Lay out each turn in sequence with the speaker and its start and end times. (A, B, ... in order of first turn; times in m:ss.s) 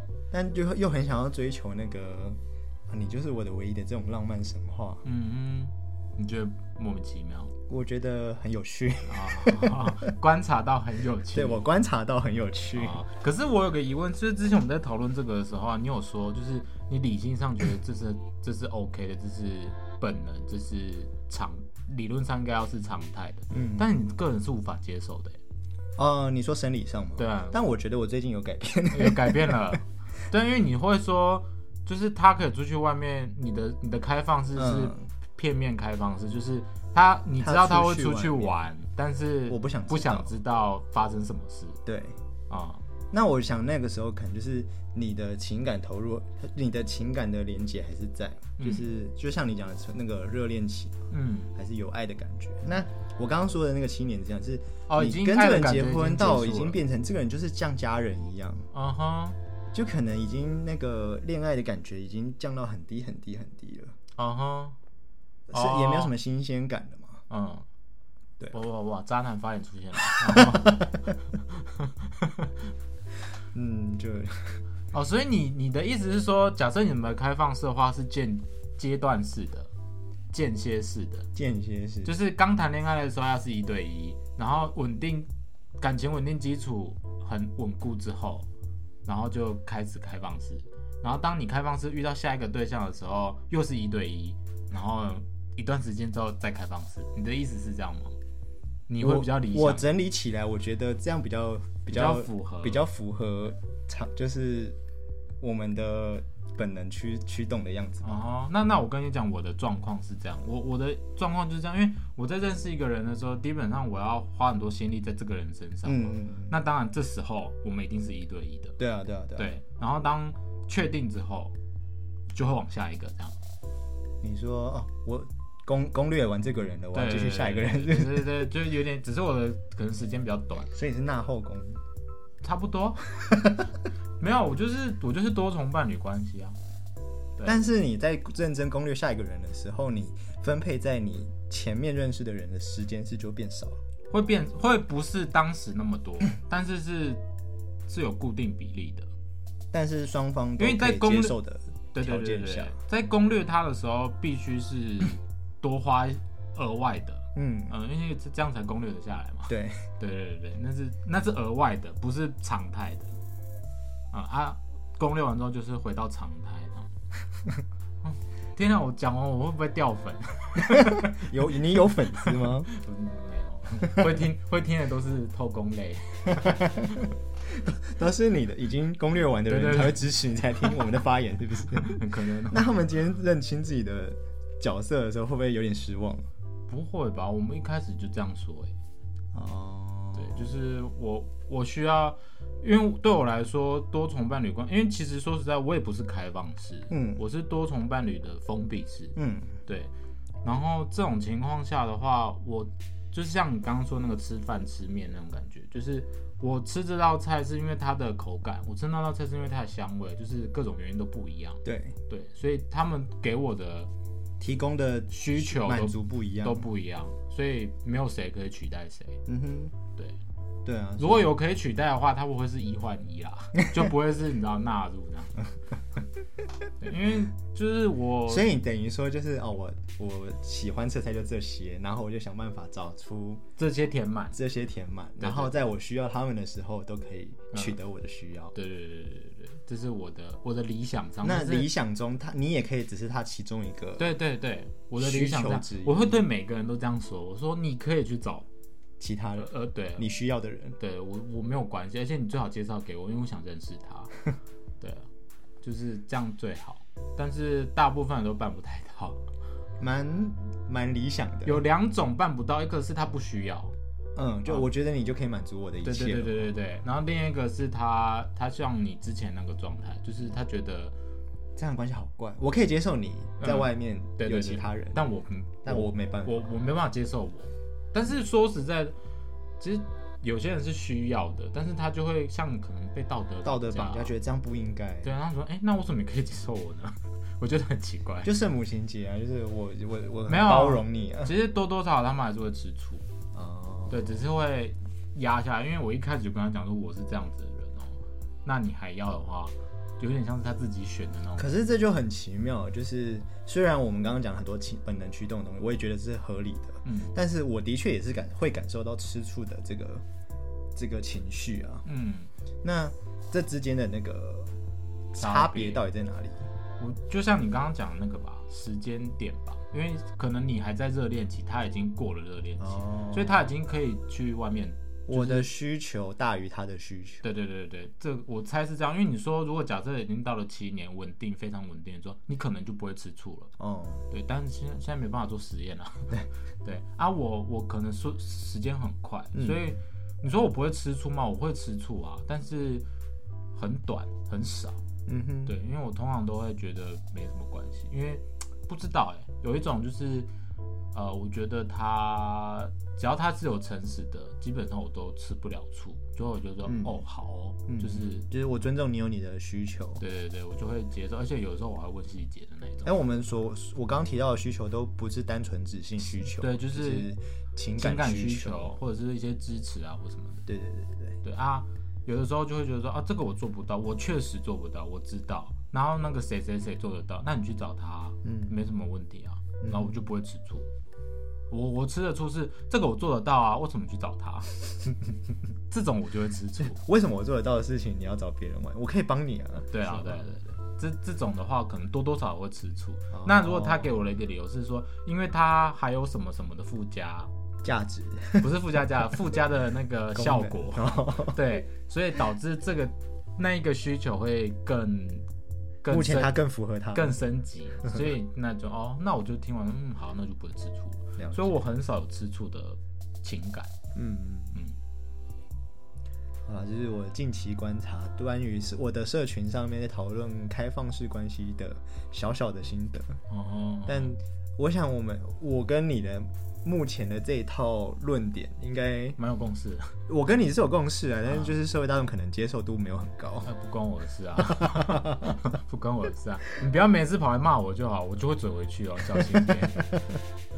0:00.3-0:05.0 A
0:05.0-0:07.5 B
0:07.7-0:10.0 A
0:09.1-0:11.6 B
0:11.3-0:13.0 A
0:12.8-0:25.4 B
0:23.5-0:23.9 A
0:26.0-0:29.8 A
0:27.2-0:27.6 B
0:28.9-0:41.8 B
0:34.6-0:35.1 A
0:37.4-0:38.6 A
0:39.5-0:40.3 A
0:41.9-0:42.2 A
0:42.5-0:42.8 B
0:43.1-0:58.7 A
0:48.6-0:48.9 B
0:51.1-0:51.5 B
0:54.9-0:56.8 B
0:58.7-0:59.4 B
0:59.7-1:04.0 A
1:04.2-1:04.8 B
1:05.5-1:07.2 A
1:05.5-1:06.1 B
1:07.3-1:07.7 B
1:08.5-1:12.5 B
1:10.1-1:10.9 A
1:13.5-1:14.6 A
1:14.9-1:19.7 B
1:20.3-1:21.3 B
1:21.4-1:22.2 A
1:22.0-1:25.3 B
1:25.8-1:28.5 B
1:29.0-1:38.2 B
1:38.9-1:39.8 B
1:39.0-1:44.8 A
1:41.9-1:42.8 B
1:45.4-1:48.2 A
1:48.0-1:58.8 B
1:55.8-1:56.6 A
1:58.8-1:59.5 A
1:59.4-2:01.5 B
2:02.3-2:03.4 B
2:04.2-2:08.5 A
2:06.9-2:10.7 B
2:10.7-2:11.8 A
2:12.4-2:13.0 B
2:13.2-2:13.7 A
2:14.2-2:16.6 B
2:17.4-2:17.6 B
2:17.4-2:23.8 A
2:24.1-2:27.2 B
2:27.9-2:29.1 B
2:29.7-2:32.8 A
2:30.6-2:31.4 B
2:31.9-2:43.2 B
2:37.4-2:37.7 A
2:39.5-2:39.9 A
2:44.1-2:46.9 B
2:48.0-2:51.2 B
2:50.6-2:52.7 A
2:52.2-2:56.7 B
2:53.9-2:54.2 A
2:56.3-3:06.3 A
2:59.5-3:00.0 B
3:01.8-3:02.6 B
3:06.7-3:08.7 B
3:09.3-3:10.5 A
3:10.2-3:19.2 B
3:16.9-3:17.2 A
3:19.2-3:19.6 A
3:19.7-3:19.9 B
3:20.4-3:33.9 B
3:31.6-3:32.0 A
3:34.4-3:36.7 A
3:35.1-3:39.2 B
3:39.3-3:39.7 A
3:40.6-3:41.3 A
3:41.0-3:45.4 B
3:46.8-3:48.5 B
3:48.3-3:53.4 A
3:53.6-3:54.4 B
3:54.3-3:58.6 A
3:55.2-3:55.6 B
3:58.5-4:01.7 B
4:01.2-4:04.1 A
4:04.0-4:08.5 B
4:05.0-4:06.3 A
4:09.0-4:10.8 A
4:09.4-4:10.1 B
4:10.8-4:14.1 B
4:14.8-4:15.1 B
4:15.6-4:19.2 B
4:19.8-4:21.6 A
4:21.4-4:23.7 B
4:24.2-4:26.4 A
4:25.8-4:31.0 B
4:31.6-4:35.0 A
4:33.4-4:39.0 B
4:35.6-4:36.5 A
4:39.6-4:44.1 B
4:43.4-4:45.1 A
4:45.0-4:48.3 B
4:48.2-4:51.3 A
4:50.3-4:53.1 B
4:53.3-4:54.1 A
4:53.9-5:01.6 B
5:01.4-5:10.0 A
5:06.8-5:07.2 B
5:10.8-5:11.8 A
5:11.8-5:12.3 B
5:12.6-5:14.6 A
5:15.1-5:16.5 A
5:15.2-5:15.8 B
5:16.8-5:25.5 B
5:22.6-5:23.4 A
5:25.1-5:27.2 A
5:27.2-5:33.5 B
5:33.6-5:34.0 A
5:34.1-5:42.8 B
5:39.3-5:39.6 A
5:43.5-5:44.8 B
5:45.1-5:45.6 A
5:45.5-5:50.3 B
5:50.9-5:58.3 B
5:56.6-5:57.0 A
5:57.7-6:00.0 A
6:00.0-6:02.9 B
6:02.8-6:08.7 A
6:06.3-6:07.1 B
6:07.8-6:10.4 B
6:10.5-6:11.2 A
6:11.2-6:20.7 B
6:18.2-6:18.5 A
6:19.6-6:20.0 A
6:21.5-6:24.6 B
6:25.7-6:26.8 B
6:26.6-6:30.2 A
6:29.7-6:37.3 B
6:33.1-6:33.9 A
6:37.6-6:38.5 A
6:38.4-6:45.3 B
6:40.1-6:41.4 A
6:45.8-6:46.4 B
6:45.9-6:47.2 A
6:46.9-6:53.7 B
6:51.2-6:51.6 A
6:54.0-6:54.6 A
6:56.5-7:03.2 A
7:03.3-7:04.2 B
7:03.9-7:09.2 A
7:09.2-7:09.9 B
7:10.1-7:13.5 A
7:11.3-7:11.6 B
7:13.4-7:19.9 B
7:14.5-7:15.4 A